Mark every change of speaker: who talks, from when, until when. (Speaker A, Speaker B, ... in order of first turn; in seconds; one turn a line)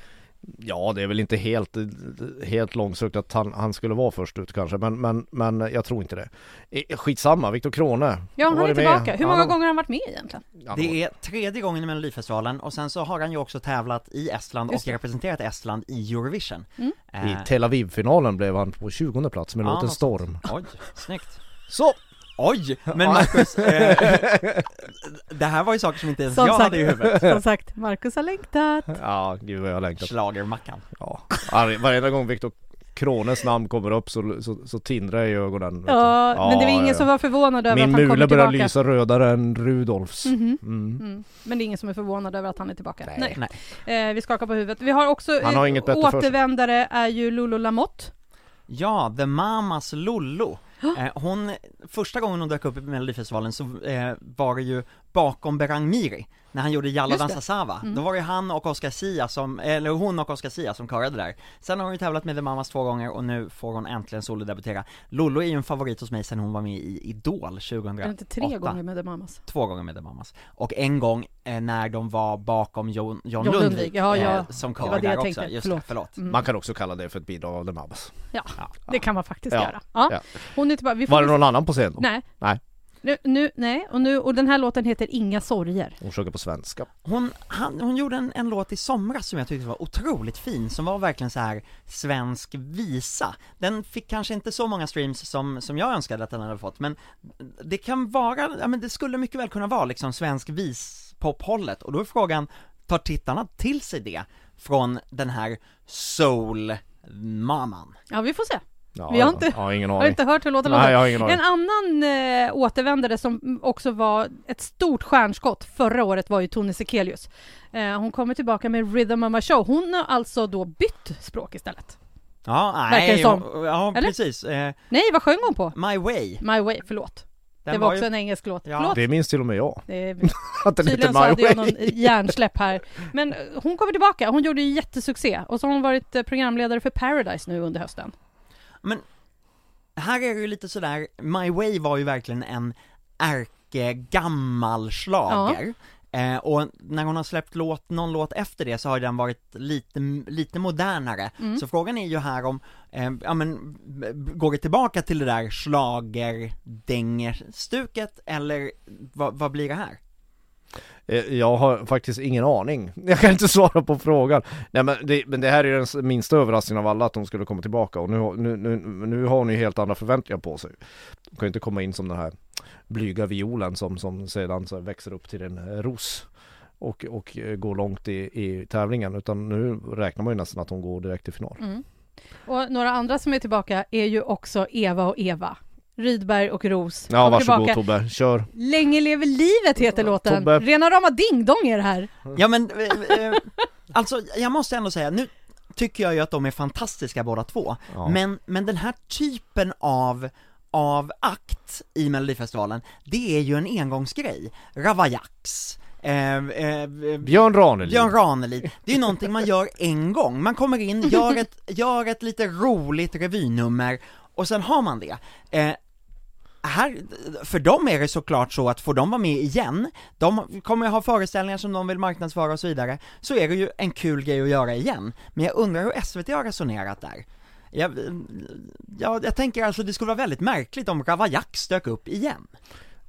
Speaker A: 0.4-9.6
Speaker B: 8.4-10.4
Speaker A: 10.6-11.0
Speaker C: 10.7-17.5
Speaker A: 17.2-20.4
Speaker C: 19.6-21.4
Speaker A: 21.7-22.0
Speaker C: 22.4-27.3
Speaker A: 22.9-24.7
Speaker B: 26.3-29.0
Speaker A: 28.9-30.1
Speaker C: 30.0-30.9
Speaker A: 31.0-37.1
Speaker B: 35.9-38.7
Speaker A: 37.7-41.0
Speaker B: 40.2-48.1
Speaker A: 43.0-43.4
Speaker A: 45.4-46.3
Speaker C: 48.7-68.8
Speaker B: 57.1-58.0
Speaker B: 68.0-69.4
Speaker C: 69.5-76.1
Speaker B: 73.4-76.4
Speaker A: 76.3-78.1
Speaker B: 78.3-82.2
Speaker A: 79.5-80.3
Speaker A: 81.1-82.6
Speaker B: 83.0-86.0
Speaker A: 86.0-86.9
Speaker C: 87.0-107.9
Speaker B: 108.1-122.0
Speaker A: 109.0-111.4
Speaker C: 122.5-124.8
Speaker B: 122.9-124.1
Speaker B: 124.9-125.8
Speaker C: 125.7-126.4
Speaker B: 126.4-129.0
Speaker C: 127.7-128.1
Speaker C: 128.7-129.0
Speaker A: 128.9-132.1
Speaker B: 129.9-138.1
Speaker C: 140.0-160.0
Speaker B: 145.3-145.6
Speaker A: 161.1-170.8
Speaker A: 171.3-172.4
Speaker A: 172.9-176.3
Speaker A: 176.8-181.6
Speaker B: 181.6-181.8
Speaker B: 182.4-187.8
Speaker A: 187.1-188.5
Speaker B: 188.5-192.1
Speaker A: 189.9-190.7
Speaker C: 192.4-215.8
Speaker A: 207.2-208.1
Speaker C: 216.6-232.5